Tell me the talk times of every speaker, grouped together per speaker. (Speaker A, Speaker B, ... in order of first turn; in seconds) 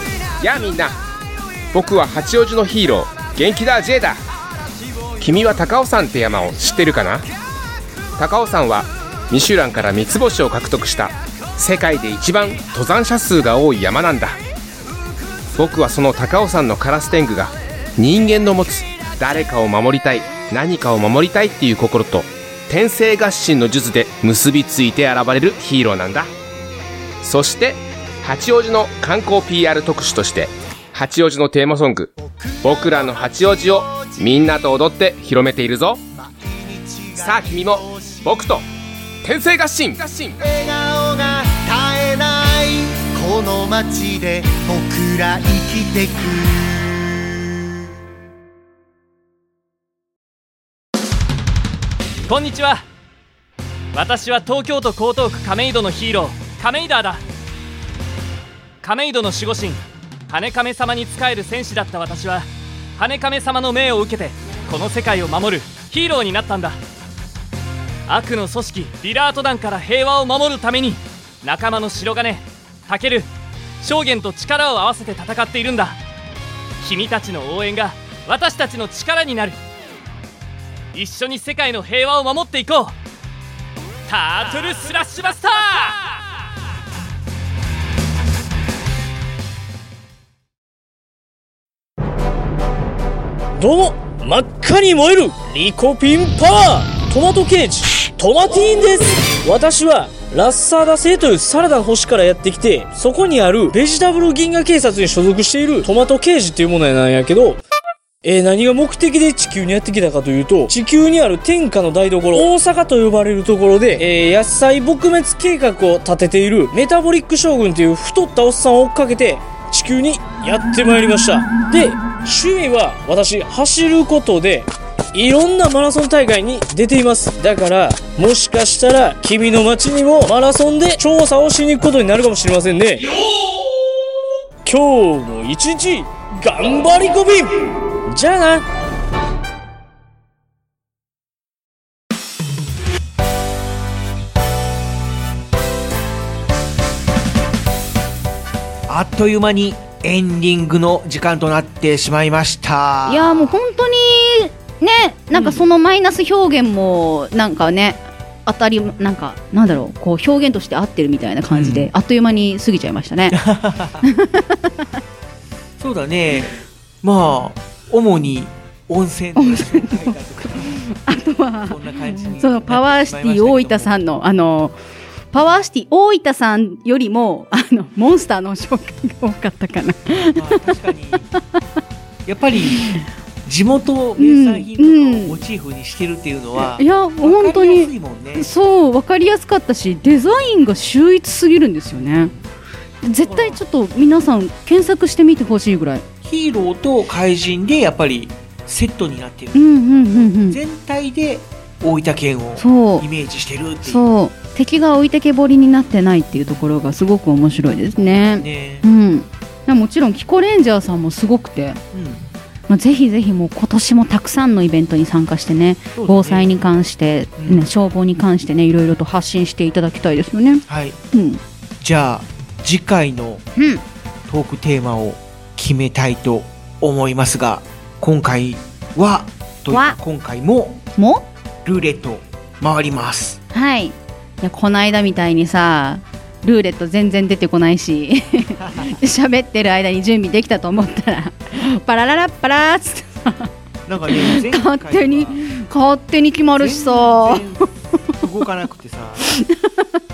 Speaker A: 0.4-1.0, 1.7-4.2, 5.2-7.2, 8.2-14.4, 15.6-26.3, 27.2-32.1, 32.6-36.0, 37.2-38.6, 39.2-40.4
Speaker B: 32.2-34.2, 36.1-38.4, 40.4-46.8
Speaker C: 52.3-52.8, 53.9-57.2, 58.8-66.8, 68.1-73.3, 73.8-76.0, 76.8-79.6, 80.9-82.9, 84.1-86.0
Speaker D: 93.6-107.6, 108.2-133.1, 134.6-137.5, 138.1-138.6
Speaker E: 148.9-153.6, 155.3-155.7, 161.5-161.9, 163.3-164.0, 165.8-170.7, 171.7-174.1, 180.3-181.3, 182.2-182.9, 183.4-188.5, 192.0-192.4, 193.2-193.6, 196.2-204.1, 207.9-208.8, 211.9-212.3, 215.9-216.5, 217.4-217.7, 220.7-221.0, 221.8-223.4, 224.3-230.8, 231.6-233.4, 238.6-238.9, 243.8-245.4, 246.6-249.2
Speaker F: 153.1-163.4, 164.0-164.6, 169.4-171.8, 172.3-174.7, 175.3-180.6, 182.7-183.0, 184.2-185.4, 186.6-192.3, 193.0-196.0, 199.5-200.6, 202.6-203.1, 203.8-211.8, 212.7-221.4, 223.6-223.8, 229.7-230.0, 230.9-231.2, 233.5-243.5, 244.1-247.4, 249.2-249.7